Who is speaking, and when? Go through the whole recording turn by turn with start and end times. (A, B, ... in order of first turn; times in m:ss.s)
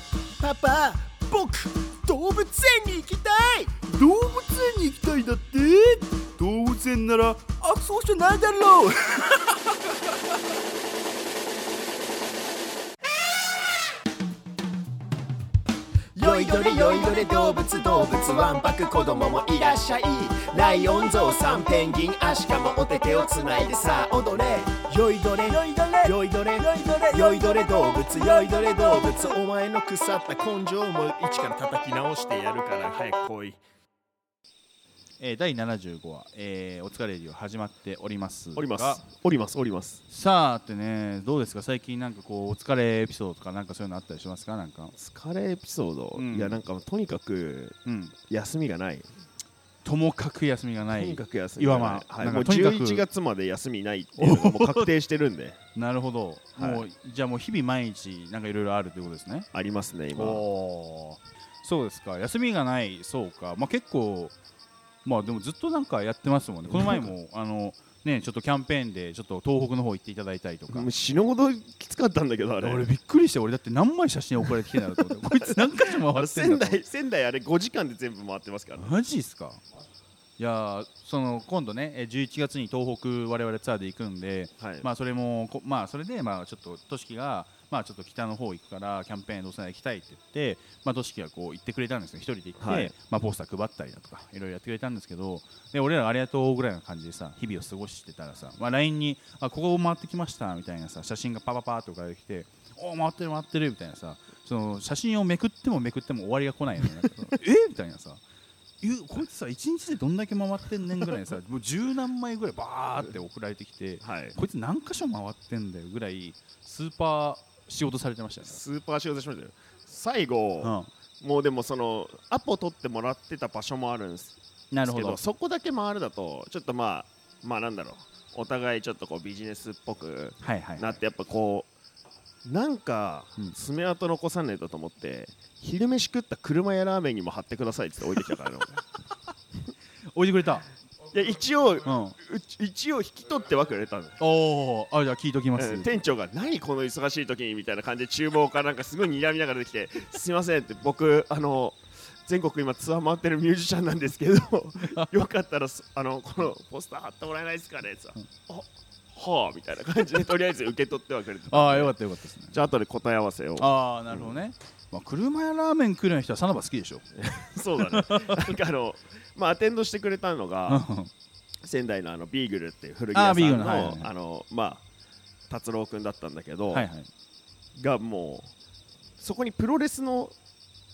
0:00.4-0:03.7 A
0:03.9-0:09.6 B
0:16.2-0:32.0 A
0:30.4-0:33.6 C
0:35.2-0:39.0 B
0:38.6-0:40.0 C
0:40.1-0:44.9 B
0:45.0-0:49.1 C
0:46.1-0:46.6 B
0:47.9-0:48.1 B
0:49.8-0:53.0 B
0:50.9-0:55.6 C
0:54.2-0:54.9 B
0:55.8-0:59.5 B
0:56.6-0:56.8 C
0:59.5-1:00.4 C
1:00.1-1:04.3 B
1:05.0-1:10.9 B
1:06.7-1:07.1 C
1:10.7-1:12.9 C
1:12.6-1:16.8 B
1:15.2-1:19.0 C
1:18.8-1:19.6 B
1:20.4-1:48.2 B
1:24.6-1:24.9 C
1:32.6-1:32.9 C
1:48.8-1:58.6 B
1:54.0-1:54.4 C
1:58.4-2:11.7 C
2:00.6-2:00.9 B
2:04.7-2:05.2 B
2:10.4-2:11.0 B
2:12.4-2:18.8 C
2:20.1-2:20.6 B
2:21.1-2:24.2 C
2:21.8-2:22.1 B
2:24.2-2:26.0 B
2:25.6-2:41.9 C
2:41.5-2:42.6 B
2:42.5-2:44.4 C
2:43.6-2:47.1 B
2:47.2-2:50.8 C
2:47.9-2:48.5 B
2:50.7-2:51.1 B
2:51.6-2:54.8 C
2:53.1-2:54.1 B
2:55.5-2:56.9 C
2:56.7-2:57.1 B
2:57.8-2:58.5 C
2:59.2-3:00.4 C